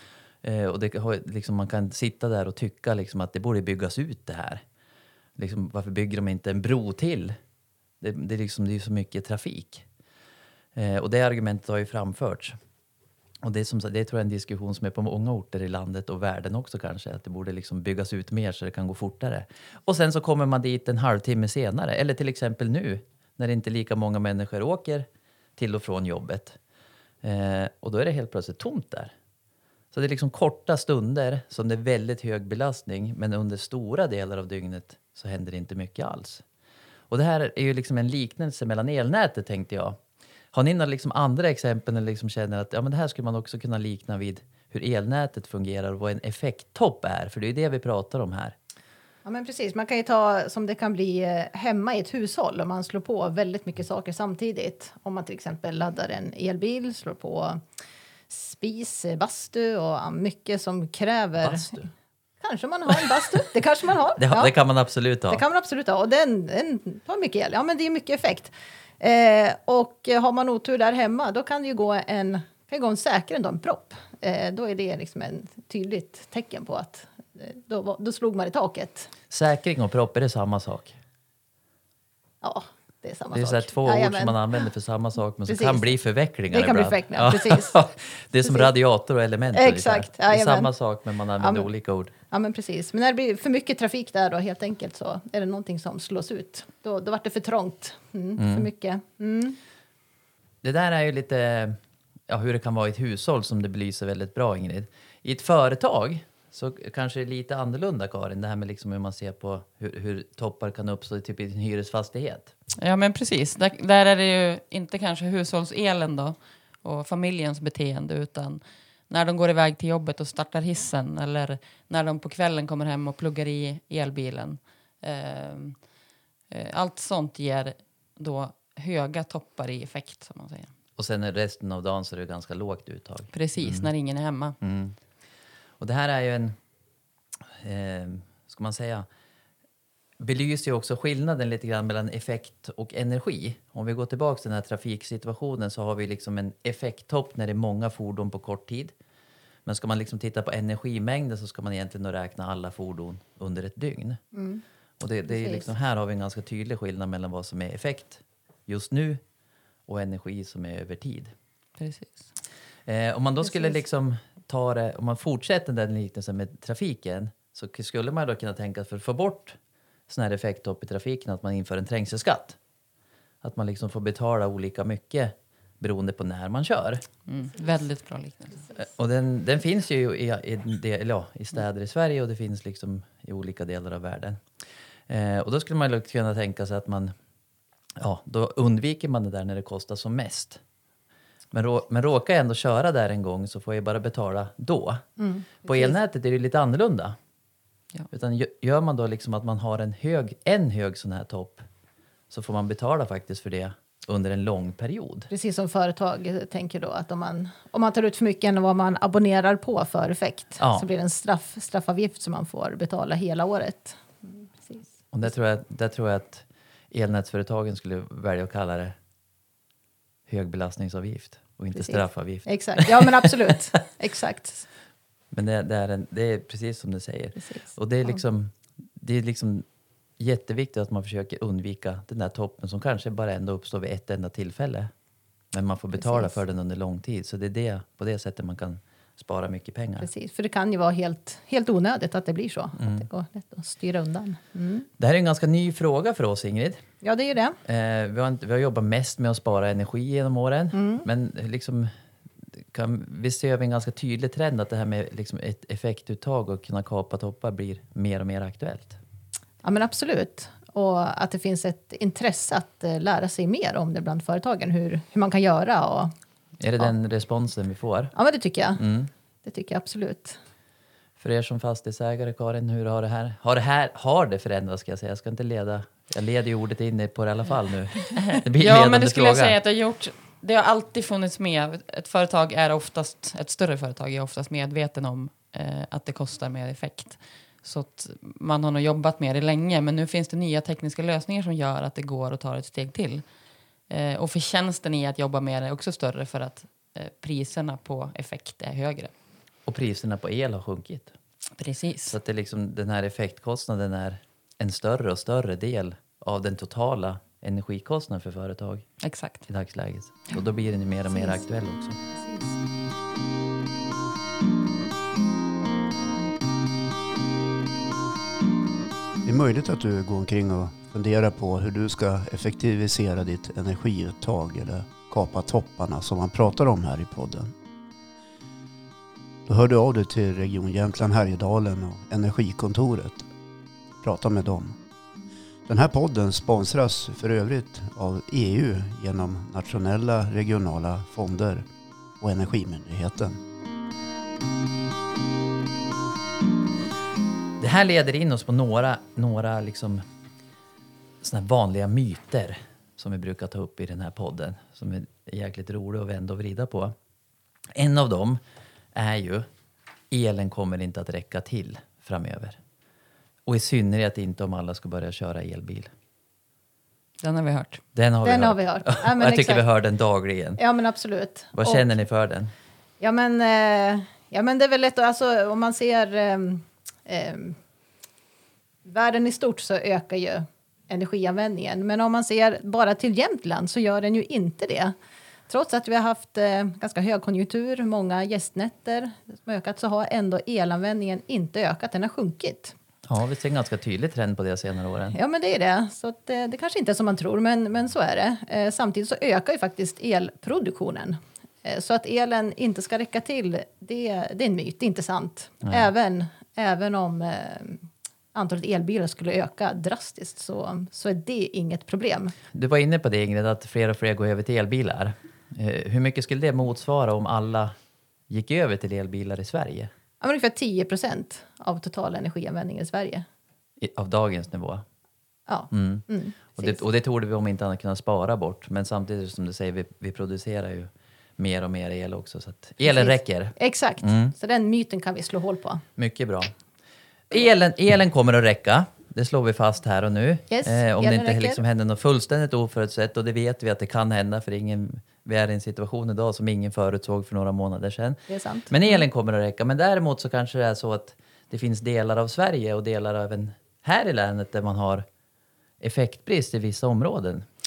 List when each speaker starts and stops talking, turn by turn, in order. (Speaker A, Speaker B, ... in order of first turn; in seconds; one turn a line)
Speaker A: 0.4-4.6
Speaker A: 5.4-7.4
Speaker A: 8.0-9.9
Speaker A: 10.8-12.6
Speaker A: 13.4-26.6
Speaker A: 27.2-29.1
Speaker A: 29.9-36.4
Speaker A: 37.1-40.0
Speaker A: 40.5-48.6
Speaker B: 49.2-57.6
Speaker B: 58.3-61.9
Speaker A: 61.4-61.8
Speaker B: 62.4-64.5
Speaker A: 64.2-65.4
Speaker B: 65.3-79.1
Speaker A: 79.3-81.0
Speaker B: 82.4-84.4
Speaker A: 83.3-92.1
Speaker B: 85.5-85.9
Speaker B: 86.5-87.8
Speaker B: 89.5-90.7
Speaker B: 91.4-91.7
Speaker B: 92.3-99.6
Speaker A: 98.4-98.7
Speaker A: 100.6-112.5
Speaker C: 112.8-125.8
Speaker C: 126.5-130.7
Speaker A: 131.0-133.9
Speaker C: 133.3-134.6
Speaker A: 134.6-135.0
Speaker A: 135.8-136.6
Speaker A: 137.6-139.1
Speaker A: 140.2-148.9
Speaker A: 149.7-154.2
Speaker B: 154.3-154.6
Speaker A: 155.0-159.2
Speaker B: 155.3-155.7
Speaker A: 159.9-161.3
Speaker C: 161.8-162.3
Speaker A: 162.9-172.6
Speaker A: 173.4-177.1
Speaker C: 177.2-178.7
Speaker A: 178.8-184.4
Speaker A: 185.1-187.1
Speaker A: 188.0-190.6
Speaker A: 191.5-195.1
Speaker B: 195.2-196.0
Speaker A: 195.6-197.2
Speaker A: 198.1-201.6
Speaker A: 202.3-205.3
Speaker B: 205.3-214.9
Speaker A: 210.6-210.8
Speaker A: 215.1-218.9
Speaker A: 220.3-223.3
Speaker B: 221.8-224.7
Speaker A: 225.3-229.7
Speaker B: 227.4-228.2
Speaker A: 230.2-234.9
Speaker A: 235.5-240.1
Speaker B: 236.0-236.4
Speaker B: 240.0-244.9
Speaker A: 242.8-243.1
Speaker A: 245.0-246.8
Speaker B: 247.0-247.6
Speaker A: 247.6-251.9
Speaker B: 250.7-251.1
Speaker A: 252.5-259.0
Speaker B: 259.6-266.1
Speaker A: 266.6-268.1
Speaker B: 268.1-268.8
Speaker A: 268.8-269.1
Speaker B: 269.4-270.4
Speaker A: 271.2-279.6
Speaker C: 278.1-293.2
Speaker C: 293.9-299.1
Speaker A: 299.6-301.1
Speaker C: 301.6-302.1
Speaker A: 302.1-308.9
Speaker C: 309.0-309.5
Speaker A: 309.5-312.0
Speaker B: 311.1-311.4
Speaker B: 312.1-312.5
Speaker D: 319.2-327.5
Speaker D: 329.5-333.3
Speaker D: 334.0-334.8
Speaker D: 335.7-341.7
Speaker D: 342.2-343.4
Speaker A: 347.6-350.0
Speaker A: 351.2-356.9
Speaker A: 357.8-358.4
Speaker A: 358.9-359.5
Speaker A: 360.1-362.6
Speaker A: 363.5-365.9
Speaker C: 367.2-367.8
Speaker A: 367.9-370.6
Speaker B: 368.2-369.6
Speaker B: 370.6-372.0
Speaker A: 371.5-372.5
Speaker B: 373.0-377.6
Speaker B: 378.9-384.9
Speaker B: 385.5-392.8
Speaker A: 393.1-395.1
Speaker B: 395.1-412.4
Speaker A: 412.5-417.7
Speaker A: 418.3-419.9
Speaker B: 420.2-423.2
Speaker A: 423.8-424.9
Speaker B: 425.5-426.8
Speaker A: 425.7-434.3
Speaker B: 432.8-435.8
Speaker A: 436.0-436.5
Speaker A: 437.3-455.1
Speaker B: 440.5-441.6
Speaker B: 448.3-448.7
Speaker A: 455.8-457.5